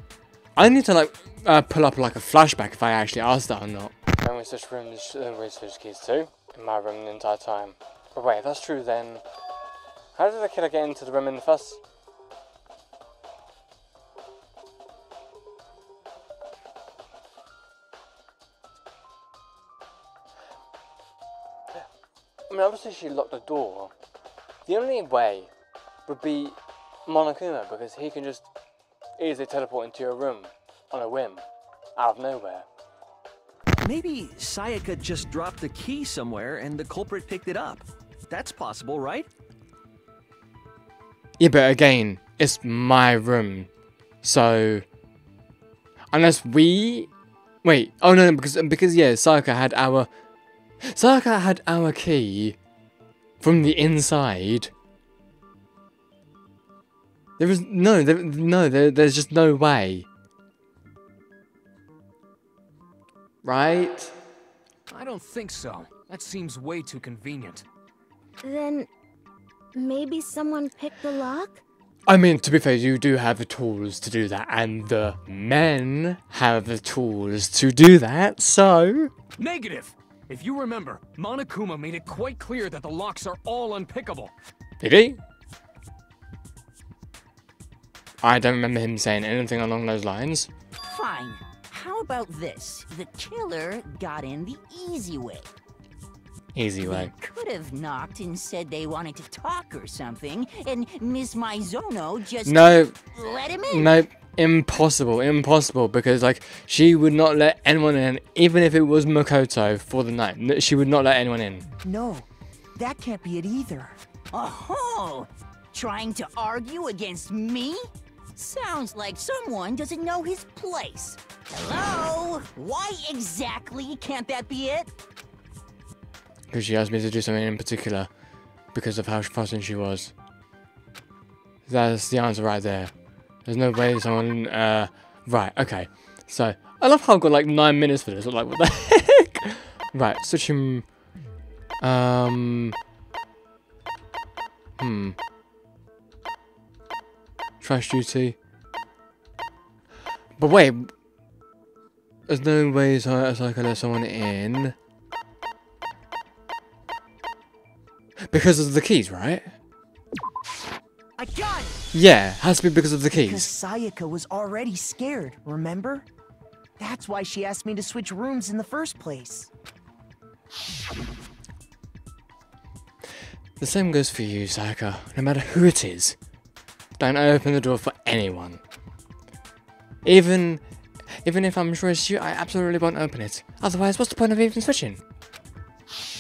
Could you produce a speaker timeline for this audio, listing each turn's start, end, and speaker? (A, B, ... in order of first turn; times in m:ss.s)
0:00.6-0:09.2 A
0:10.2-0:11.8 A
0:22.5-0:23.9 A
0:24.7-0:25.5 A
0:26.1-0:28.5 A
0:29.2-0:31.4 A
0:32.0-0:32.7 A
0:33.8-0:39.3 B
0:41.4-0:43.7 A
0:44.2-0:44.8 A
0:46.1-0:47.1 A
0:47.6-0:50.1 A
0:50.8-0:52.6 A
0:53.4-0:54.7 A
0:57.4-1:00.1 A
1:03.4-1:04.1 A
1:04.9-1:07.6 C
1:08.4-1:08.9 D
1:09.8-1:11.6 D
1:12.1-1:19.1 A
1:19.4-1:24.3 C
1:24.8-1:25.2 A
1:28.2-1:30.5 A
1:30.8-1:35.5 E
1:36.6-1:37.1 A
1:36.8-1:43.9 E
1:42.4-1:43.0 A
1:43.7-1:51.6 A
1:51.8-1:54.0 F
1:54.3-2:04.9 E
2:06.5-2:08.1 A
2:08.7-2:10.1 A
2:11.7-2:12.9 A
2:13.5-2:20.8 A
2:21.8-2:22.8 A
2:24.8-2:25.2 A
2:27.6-2:28.4 A
2:30.4-2:30.9 A
2:32.3-2:34.8 A
2:38.3-2:39.6 A
2:41.2-2:41.9 F
2:41.9-2:43.5 A
2:43.1-2:46.1 F
2:46.8-2:49.5 F
2:53.6-2:56.2 A
2:57.0-2:58.6 A
3:00.0-3:00.6 A
3:01.2-3:05.0 A